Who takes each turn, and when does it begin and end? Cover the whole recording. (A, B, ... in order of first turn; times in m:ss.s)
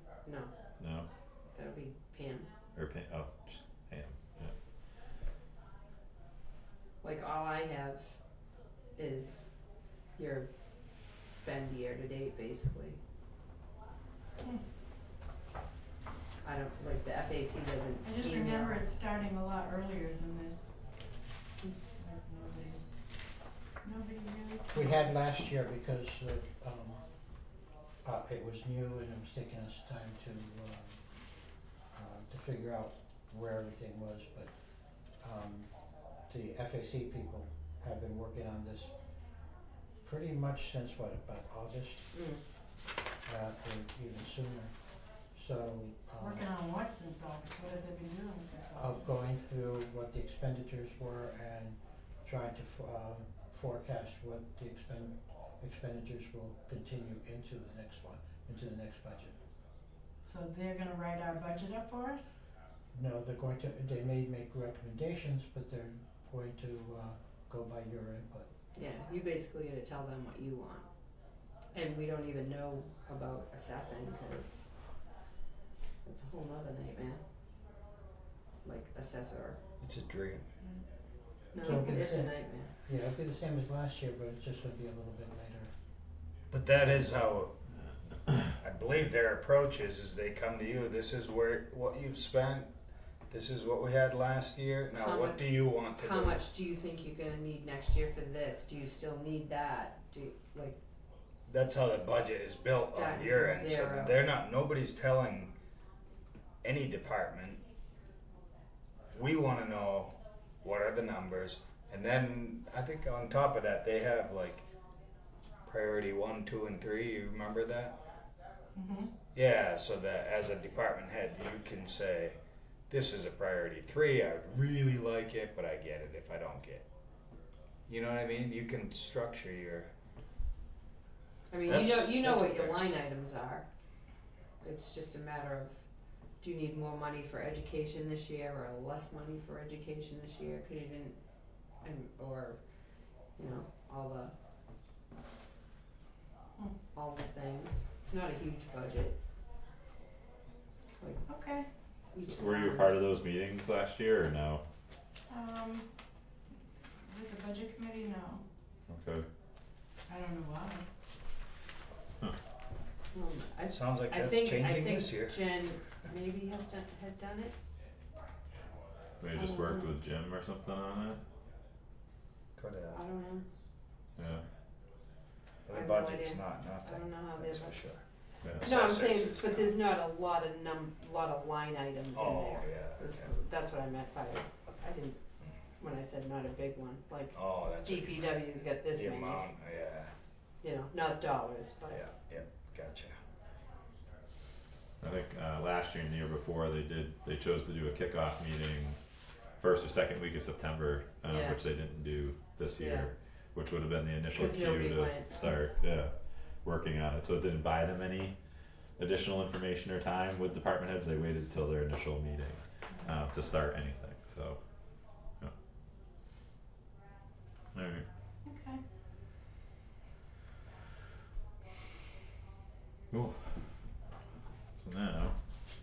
0:00.2-0:00.5 A
0:00.8-0:01.1 B
0:01.5-0:02.5 A
0:02.8-0:04.5 B
0:07.0-0:08.2 A
0:09.0-0:09.5 A
0:10.2-0:10.5 A
0:11.3-0:13.0 A
0:16.4-0:18.8 A
0:18.0-0:20.7 C
0:22.0-0:22.8 C
0:23.8-0:25.0 C
0:24.7-0:27.0 D
0:28.0-0:31.0 D
0:31.9-0:34.5 D
0:35.2-0:35.7 D
0:36.3-0:38.9 D
0:40.0-0:42.1 D
0:42.1-0:42.4 A
0:43.2-0:44.7 D
0:45.3-0:46.5 D
0:46.2-0:49.0 C
0:48.8-0:59.4 D
1:00.2-1:02.4 C
1:02.9-1:08.5 D
1:08.8-1:10.9 A
1:11.7-1:14.7 A
1:16.0-1:17.2 A
1:18.6-1:19.6 A
1:19.8-1:20.5 E
1:21.5-1:22.7 A
1:21.6-1:25.7 D
1:26.5-1:27.6 E
1:28.6-1:32.7 E
1:33.3-1:36.4 E
1:34.9-1:40.8 A
1:41.5-1:45.5 E
1:42.8-1:44.2 A
1:46.6-1:47.6 E
1:49.1-1:54.6 E
1:55.6-1:58.0 E
1:58.8-1:59.1 C
1:59.3-2:02.4 E
2:02.9-2:06.9 E
2:07.9-2:09.9 E
2:11.5-2:13.7 A
2:11.7-2:12.9 E
2:14.6-2:15.8 A
2:16.4-2:21.2 A
2:21.8-2:22.6 A
2:23.4-2:24.3 A
2:26.9-2:29.2 A
2:31.3-2:31.7 C
2:32.1-2:33.1 A
2:32.2-2:34.6 B
2:35.3-2:35.9 C
2:37.0-2:38.4 C
2:38.9-2:39.3 B
2:40.1-2:40.9 C
2:43.1-2:47.6 A
2:43.7-2:45.4 E
2:49.2-2:51.2 B
2:49.4-2:49.9 A
2:52.6-2:53.0 E
2:52.9-2:53.4 A
2:54.2-2:54.4 B
2:55.7-2:58.0 E
2:55.7-2:57.8 A
2:58.6-2:59.8 E
2:58.6-3:05.2 A
3:02.2-3:03.3 E
3:05.8-3:09.5 A
3:07.3-3:08.4 E
3:08.9-3:10.1 E
3:10.6-3:12.0 A
3:11.9-3:13.2 E
3:15.0-3:19.0 B
3:19.6-3:28.4 B
3:21.2-3:21.6 A
3:22.8-3:23.1 A
3:24.3-3:25.3 A
3:29.0-3:34.6 B
3:37.7-3:38.0 B
3:38.4-3:38.8 C
3:43.1-3:43.6 B
3:44.8-3:45.3 B